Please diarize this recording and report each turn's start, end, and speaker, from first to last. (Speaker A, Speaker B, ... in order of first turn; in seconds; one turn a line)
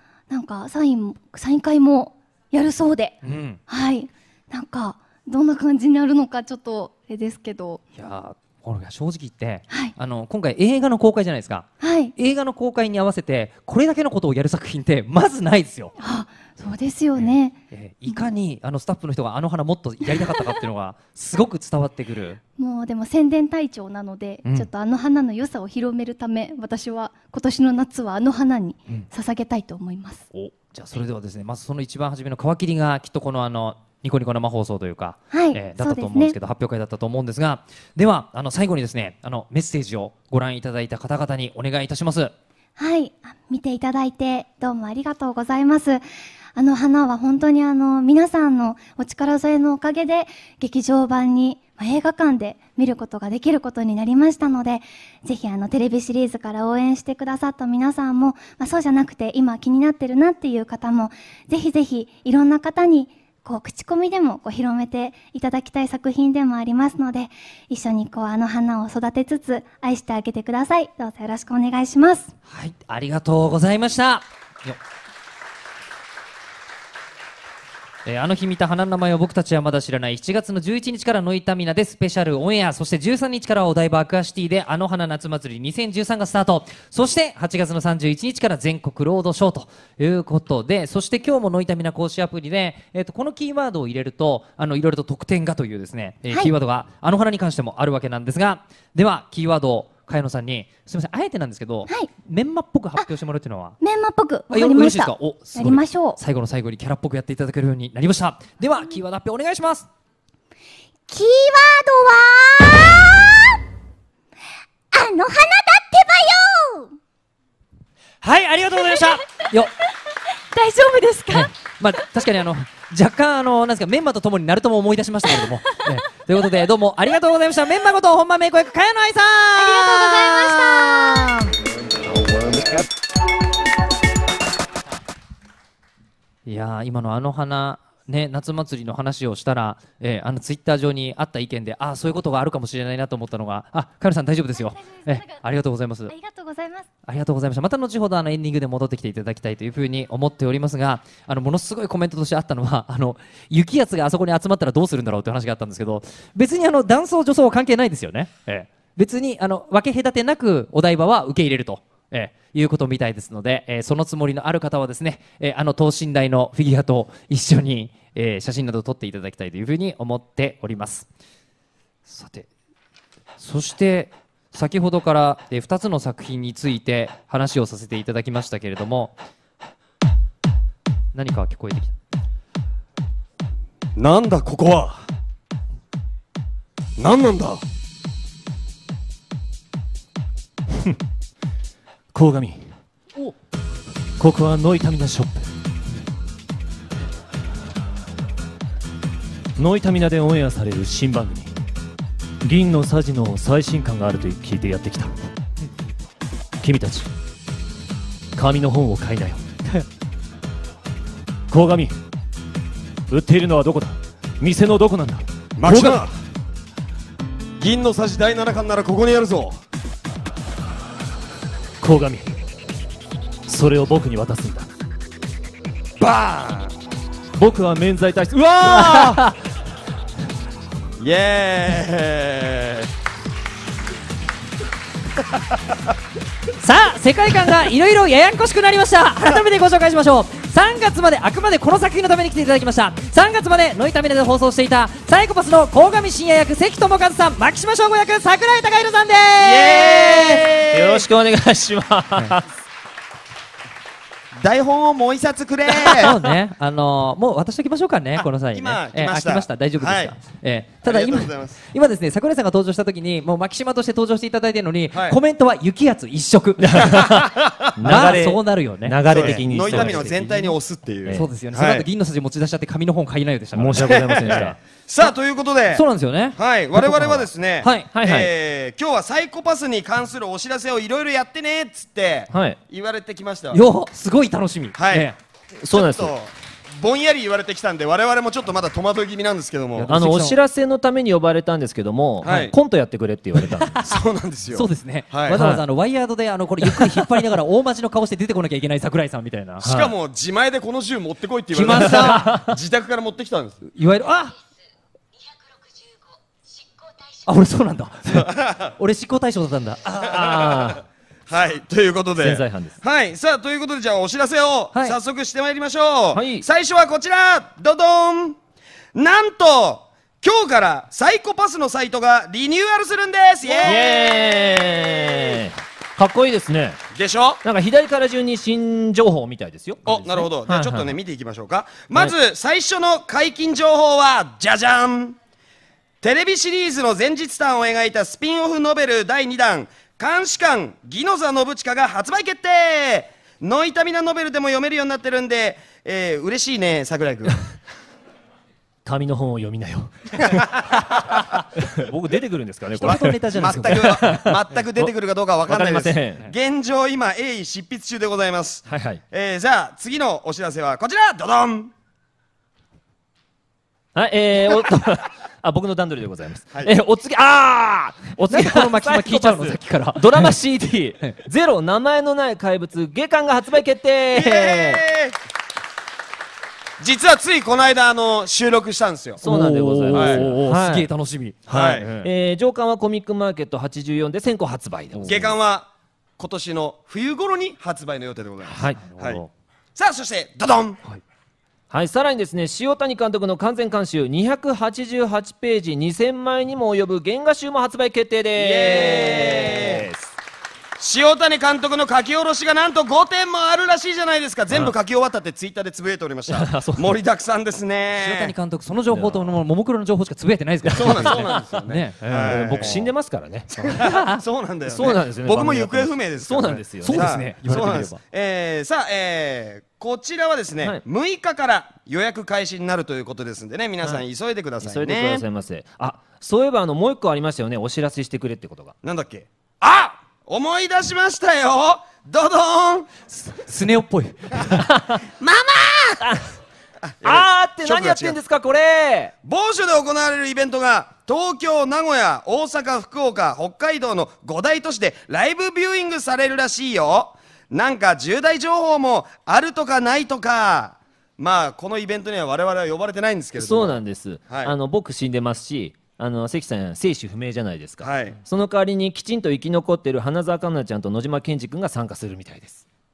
Speaker A: 0.3-3.2
Speaker B: 3.2-3.6
Speaker A: 3.7-7.8
Speaker B: 8.0-15.9
Speaker A: 11.8-12.1
Speaker A: 16.0-18.3
Speaker B: 17.1-22.4
Speaker A: 20.1-20.4
Speaker A: 22.6-30.2
Speaker B: 30.3-42.3
Speaker A: 35.3-36.4
Speaker A: 42.8-46.0
Speaker A: 46.5-72.3
Speaker B: 72.5-74.8
Speaker B: 78.0-103.8
Speaker A: 103.8-106.2
Speaker B: 104.5-109.9
Speaker A: 111.1-113.6
Speaker A: 114.9-116.9
Speaker B: 118.2-119.7
Speaker A: 118.8-119.2
Speaker A: 120.5-121.5
Speaker B: 121.3-131.5
Speaker A: 129.6-131.3
Speaker B: 136.4-146.1
Speaker A: 144.6-145.4
Speaker A: 146.1-146.9
Speaker B: 147.1-171.1
Speaker B: 172.1-172.5
Speaker B: 173.4-179.1
Speaker B: 181.1-181.9
Speaker C: 183.9-185.0
Speaker C: 187.0-187.6
Speaker D: 192.1-192.8
Speaker D: 194.2-195.5
Speaker D: 199.6-201.5
Speaker D: 202.4-205.2
Speaker D: 206.6-207.1
Speaker D: 208.3-209.5
Speaker D: 211.5-212.0
Speaker D: 213.1-216.0
Speaker C: 215.6-216.1
Speaker C: 217.6-219.6
Speaker D: 221.8-222.3
Speaker D: 223.5-224.7
Speaker C: 226.0-226.7
Speaker D: 227.3-229.1
Speaker B: 228.6-229.3
Speaker C: 228.7-229.1
Speaker C: 231.0-232.9
Speaker B: 236.6-250.2
Speaker C: 249.4-251.1
Speaker D: 249.8-252.4
Speaker C: 254.4-256.2
Speaker B: 255.9-266.9
Speaker C: 258.2-260.2
Speaker C: 260.8-261.6
Speaker C: 264.9-265.2
Speaker D: 266.6-270.5
Speaker C: 267.1-268.2
Speaker B: 267.8-270.1
Speaker C: 269.1-271.9
Speaker D: 271.0-271.3
Speaker B: 271.1-275.1
Speaker D: 273.5-274.6
Speaker C: 273.8-283.6
Speaker B: 275.7-277.9
Speaker D: 277.9-278.3
Speaker D: 282.3-282.6
Speaker B: 283.5-285.1
Speaker C: 284.8-285.1
Speaker D: 285.6-286.1
Speaker C: 285.6-290.0
Speaker B: 289.8-290.4
Speaker D: 289.9-293.8
Speaker C: 292.2-292.5
Speaker B: 293.4-293.9
Speaker C: 293.8-295.4
Speaker B: 294.5-299.6
Speaker D: 295.3-295.6
Speaker D: 296.6-297.1
Speaker D: 299.6-299.9
Speaker C: 299.6-303.6
Speaker B: 301.5-302.2
Speaker D: 301.7-302.5
Speaker B: 303.7-304.3
Speaker B: 307.2-310.0
Speaker C: 308.1-308.7
Speaker D: 309.9-310.8
Speaker C: 310.0-318.4
Speaker D: 312.2-312.8
Speaker B: 314.7-315.0
Speaker D: 316.1-316.4
Speaker C: 318.9-324.4
Speaker D: 323.5-326.8
Speaker C: 326.9-327.4
Speaker D: 327.4-330.9
Speaker C: 329.8-335.1
Speaker C: 336.0-347.5
Speaker D: 348.8-350.6
Speaker C: 350.2-350.6
Speaker D: 351.6-354.9
Speaker B: 352.8-354.0
Speaker C: 352.8-361.7
Speaker D: 355.5-356.3
Speaker D: 358.7-359.0
Speaker D: 363.9-374.8
Speaker B: 368.3-370.3
Speaker C: 374.1-375.2
Speaker C: 376.8-379.2
Speaker D: 379.2-380.9
Speaker B: 379.2-382.1
Speaker C: 379.9-380.2
Speaker C: 381.5-381.9
Speaker D: 382.0-385.3
Speaker B: 384.9-385.3
Speaker C: 385.1-389.2
Speaker D: 388.4-388.8
Speaker B: 388.9-389.3
Speaker C: 389.8-390.8
Speaker D: 391.7-400.1
Speaker C: 398.3-399.9
Speaker C: 400.8-408.3
Speaker D: 406.3-407.0
Speaker B: 408.0-412.9
Speaker D: 408.9-409.4
Speaker D: 410.6-411.4
Speaker C: 410.7-412.9
Speaker D: 412.2-413.5
Speaker C: 413.5-425.2
Speaker B: 413.6-414.2
Speaker D: 414.6-417.1
Speaker B: 416.8-418.0
Speaker D: 424.6-428.7
Speaker C: 428.8-432.9
Speaker B: 433.1-434.6
Speaker C: 435.0-436.0
Speaker D: 436.0-436.3
Speaker C: 436.8-438.2
Speaker D: 437.0-439.1
Speaker C: 439.2-454.5
Speaker D: 453.4-462.6
Speaker C: 457.8-458.2